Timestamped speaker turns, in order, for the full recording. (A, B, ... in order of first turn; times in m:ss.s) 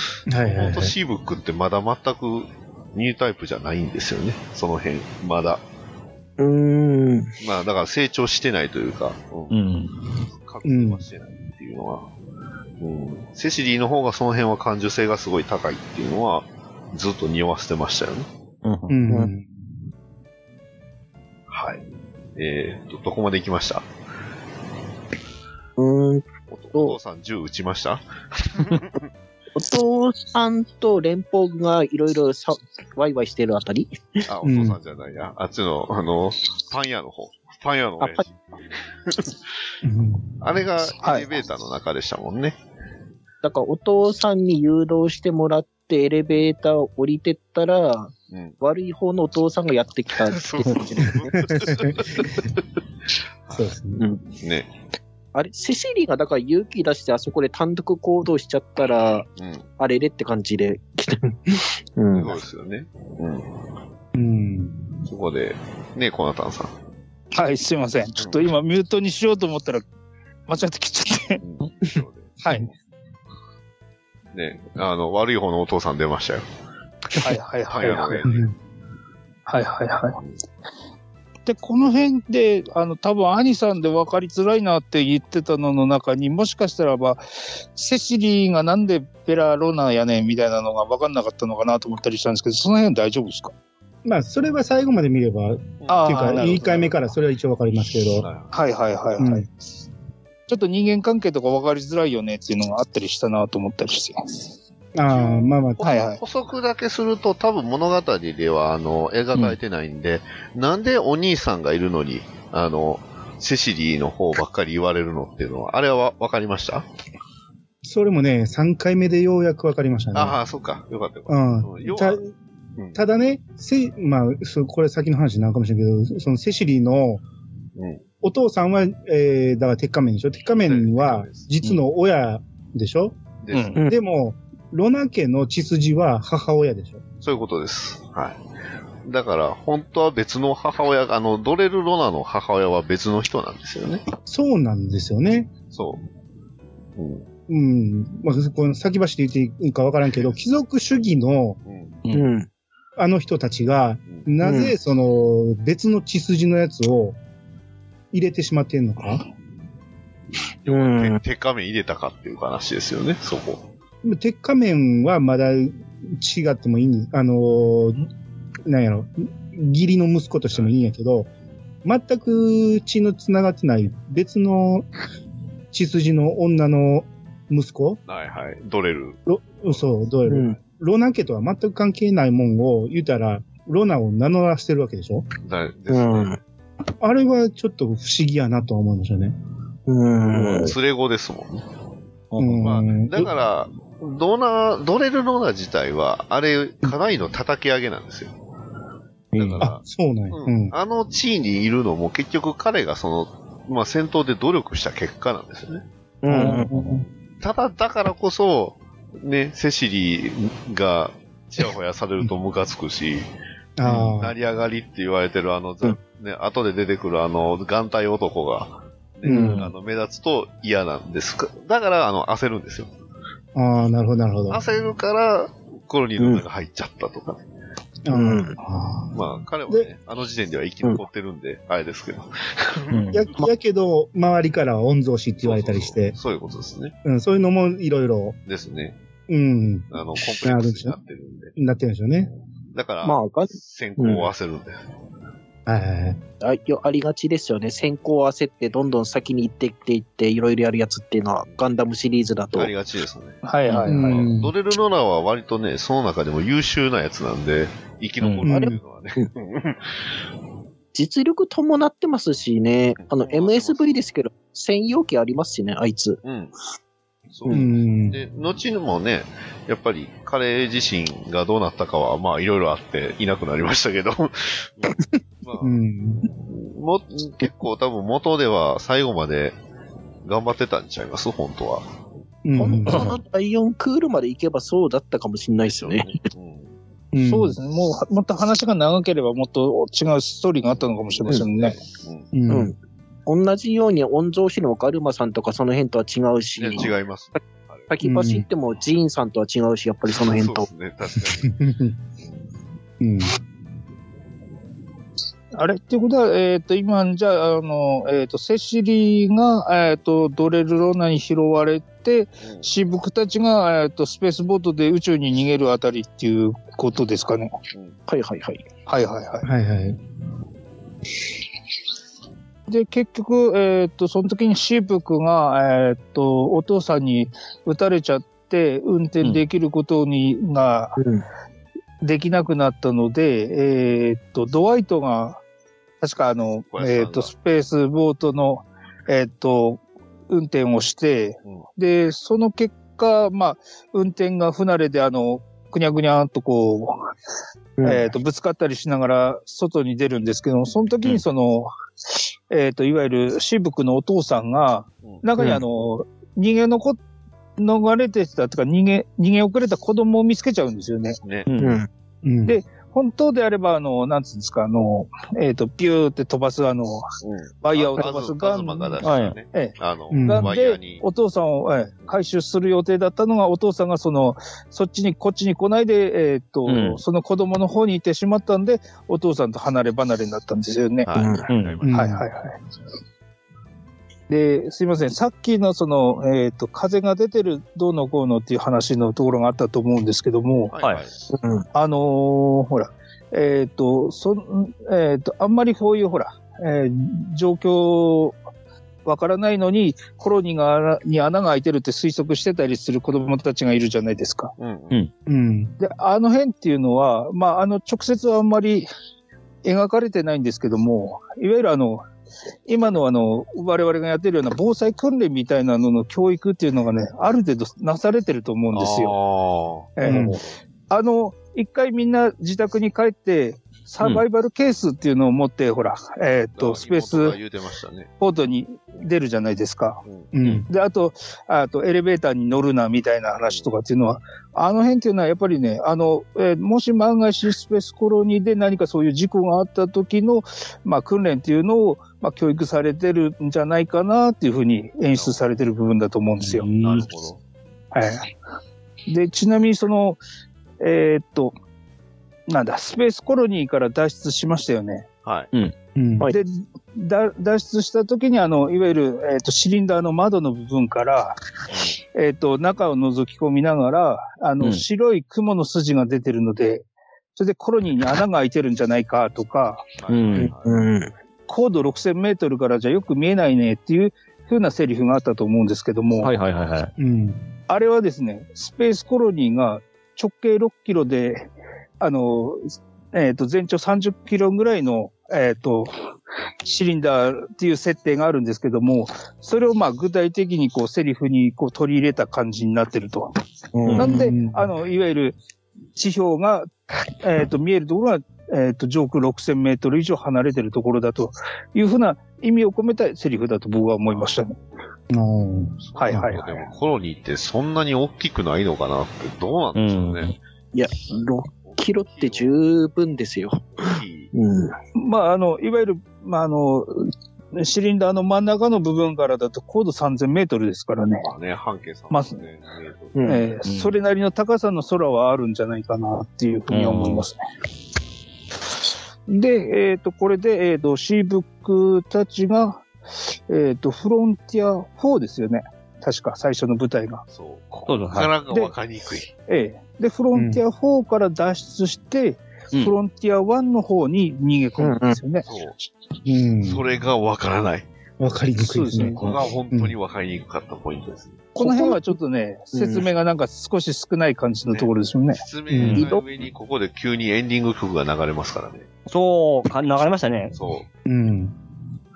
0:00.3-0:01.0 A
0:00.4-0:05.6 B
0:06.4-0:07.3 C
0:07.4-0:09.6 B
0:09.5-0:10.0 D
0:10.3-0:12.1 B
0:10.6-0:11.0 A
0:12.8-0:18.3 B
0:18.6-0:19.0 D
0:18.9-0:19.5 A
0:21.5-0:21.8 B
0:22.4-0:23.9 B
0:25.8-0:27.0 C
0:26.5-0:29.0 B
0:29.6-0:34.0 C
0:34.3-0:38.5 B
0:34.4-0:34.8 A
0:39.1-0:39.4 B
0:39.8-0:40.3 A
0:40.4-0:42.6 B
0:41.0-0:41.3 E
0:43.4-0:51.4 C
0:48.3-0:48.6 B
0:50.1-0:52.6 B
0:51.5-0:52.1 A
0:53.4-0:53.8 B
0:53.5-0:54.0 A
0:54.0-0:54.3 C
0:54.3-0:54.7 B
0:55.3-0:59.3 C
0:59.4-0:59.6 B
0:59.8-1:02.4 C
1:02.1-1:03.5 B
1:04.1-1:04.8 A
1:05.0-1:06.8 B
1:07.3-1:09.8 E
1:08.2-1:08.5 B
1:10.5-1:11.4 E
1:11.4-1:12.7 B
1:14.3-1:16.4 B
1:17.2-1:18.3 E
1:17.2-1:18.5 B
1:18.2-1:18.6 A
1:19.5-1:20.2 E
1:21.5-1:33.5 E
1:34.0-1:38.3 A
1:35.8-1:37.1 B
1:35.9-1:36.9 E
1:38.2-1:38.6 B
1:38.5-1:39.5 E
1:39.2-1:39.5 A
1:40.5-1:44.4 E
1:45.0-1:45.8 A
1:45.1-1:56.9 B
1:45.8-1:46.2 E
1:57.8-2:00.4 A
2:00.1-2:02.2 B
2:01.3-2:02.3 A
2:03.0-2:07.2 A
2:07.8-2:08.0 B
2:08.2-2:13.2 A
2:10.6-2:11.5 B
2:13.4-2:13.8 B
2:13.9-2:17.0 A
2:17.2-2:18.4 B
2:19.0-2:24.0 B
2:24.2-2:25.5 A
2:25.7-2:26.1 B
2:27.0-2:27.3 B
2:27.5-2:31.6 A
2:31.7-2:32.0 B
2:32.1-2:32.5 C
2:33.0-2:37.2 A
2:34.4-2:34.8 C
2:38.1-2:39.2 A
2:40.6-2:43.7 B
2:40.7-2:41.2 C
2:44.0-2:48.1 A
2:48.7-2:51.3 A
2:51.8-2:54.9 A
2:55.7-2:58.0 A
2:58.1-2:59.9 B
2:59.3-3:05.3 A
3:00.3-3:00.6 C
3:05.4-3:06.4 B
3:05.9-3:06.4 C
3:07.0-3:09.4 A
3:09.9-3:10.7 C
3:10.3-3:11.6 B
3:12.3-3:12.8 D
3:12.4-3:13.3 A
3:12.6-3:18.3 B
3:19.3-3:19.7 D
3:19.4-3:19.8 B
3:19.6-3:20.8 A
3:20.3-3:25.8 B
3:26.2-3:26.7 C
3:26.3-3:26.6 A
3:26.3-3:27.0 D
3:27.4-3:33.3 B
3:33.8-3:34.4 A
3:33.9-3:34.1 D
3:33.9-3:42.9 B
3:39.3-3:39.7 C
3:39.3-3:39.7 D
3:43.6-3:44.6 A
3:44.5-3:47.4 B
3:48.1-3:49.2 A
3:48.1-3:48.6 C
3:49.1-3:53.3 B
3:52.9-3:53.3 D
3:53.1-3:56.2 A
3:55.4-3:57.0 B
3:57.0-3:58.4 A
3:58.5-3:59.0 B
3:59.3-4:01.0 A
3:59.9-4:01.5 B
4:01.6-4:02.3 A
4:02.7-4:04.8 B
4:03.0-4:04.3 C
4:05.7-4:06.2 A
4:06.4-4:12.7 C
4:12.5-4:13.4 B
4:13.4-4:14.2 E
4:13.9-4:14.5 A
4:13.9-4:20.0 B
4:18.2-4:18.5 D
4:18.5-4:18.8 A
4:18.5-4:19.3 C
4:20.9-4:26.2 C
4:23.0-4:24.0 B
4:26.2-4:26.5 B
4:27.3-4:39.6 B
4:27.5-4:28.2 A
4:35.6-4:36.3 A
4:40.2-4:42.0 B
4:42.4-4:43.2 A
4:42.6-4:46.2 C
4:45.7-4:46.8 B
4:47.1-4:47.6 A
4:47.2-4:51.8 E
4:50.8-4:52.3 B
4:52.3-4:52.7 A
4:52.5-4:52.8 C
4:53.3-4:56.9 C
4:56.6-4:57.9 B
4:57.9-5:00.7 C
4:58.0-4:58.5 A
5:00.1-5:01.6 B
5:01.4-5:02.0 A
5:03.0-5:03.4 A
5:05.5-5:17.5 E
5:12.4-5:12.7 B
5:18.1-5:18.6 C
5:18.9-5:19.5 E
5:19.4-5:20.0 A
5:22.7-5:31.0 E
5:31.0-5:31.2 C
5:32.0-5:35.4 E
5:36.0-5:47.0 E
5:36.7-5:37.3 B
5:47.8-5:48.1 C
5:47.8-5:51.7 E
5:52.5-5:57.0 E
5:55.4-5:55.6 C
5:57.6-6:01.2 E
6:01.5-6:01.8 D
6:01.6-6:01.9 C
6:02.2-6:02.6 A
6:02.5-6:07.1 E
6:07.2-6:11.0 B
6:07.6-6:09.8 E
6:09.0-6:09.4 D
6:10.1-6:10.5 A
6:10.3-6:21.1 E
6:16.7-6:17.0 D
6:21.1-6:22.0 B
6:21.1-6:21.5 C
6:21.5-6:21.8 D
6:21.8-6:22.3 A
6:21.9-6:22.6 E
6:24.3-6:30.7 E
6:30.7-6:31.3 B
6:30.8-6:31.0 D
6:31.3-6:31.7 C
6:31.7-6:38.4 E
6:39.0-6:44.5 E
6:44.6-6:45.0 B
6:45.3-6:45.8 A
6:45.8-6:48.9 E
6:49.6-6:52.1 E
6:52.7-6:59.2 E
6:58.7-7:00.3 B
7:00.0-7:07.4 E
7:00.0-7:00.4 A
7:00.0-7:00.4 D
7:04.0-7:04.2 D
7:06.6-7:08.1 B
7:08.2-7:10.0 E
7:10.1-7:10.3 B
7:10.3-7:10.7 A
7:10.7-7:26.7 E
7:25.1-7:25.4 B
7:26.4-7:27.0 A
7:26.8-7:27.4 B
7:27.9-7:28.3 E
7:29.1-7:30.2 E
7:30.8-7:31.5 E
7:32.5-7:35.1 E
7:35.2-7:35.5 B
7:36.0-7:36.3 A
7:36.3-7:41.3 E
7:42.2-7:49.9 E
7:50.0-7:50.9 B
7:50.1-7:50.5 D
7:50.4-7:51.1 C
7:51.5-7:56.3 E
7:56.2-7:56.9 D
7:57.0-7:57.5 A
7:57.7-8:06.0 E
8:06.6-8:13.3 E
8:13.7-8:14.4 C
8:14.0-8:15.4 E
8:14.0-8:14.7 A
8:16.0-8:16.7 E
8:17.2-8:24.6 E
8:24.1-8:24.4 B
8:25.1-8:26.4 A
8:25.8-8:30.4 B
8:26.0-8:26.7 E
8:29.8-8:30.4 D
8:30.7-8:34.8 C
8:31.5-8:32.5 B
8:33.8-8:34.3 B
8:35.0-8:41.3 E
8:41.2-8:43.4 B
8:42.1-8:42.4 E
8:43.2-8:43.5 C
8:43.2-8:47.4 E
8:43.6-8:44.0 D
8:46.7-8:47.3 D
8:49.3-8:57.2 E
8:57.3-8:59.3 B
8:57.9-8:58.3 D
8:59.5-9:05.5 E
9:00.4-9:00.6 A
9:04.8-9:05.2 C
9:05.4-9:05.8 B
9:06.2-9:06.8 A
9:06.6-9:07.9 B
9:08.2-9:10.0 A
9:08.7-9:09.3 E
9:09.1-9:11.5 B
9:11.6-9:15.4 E
9:11.6-9:12.2 C
9:12.7-9:13.1 C
9:14.7-9:18.9 B
9:15.7-9:16.1 A
9:15.9-9:16.2 E
9:19.1-9:20.6 D
9:20.5-9:20.9 B
9:21.1-9:21.6 A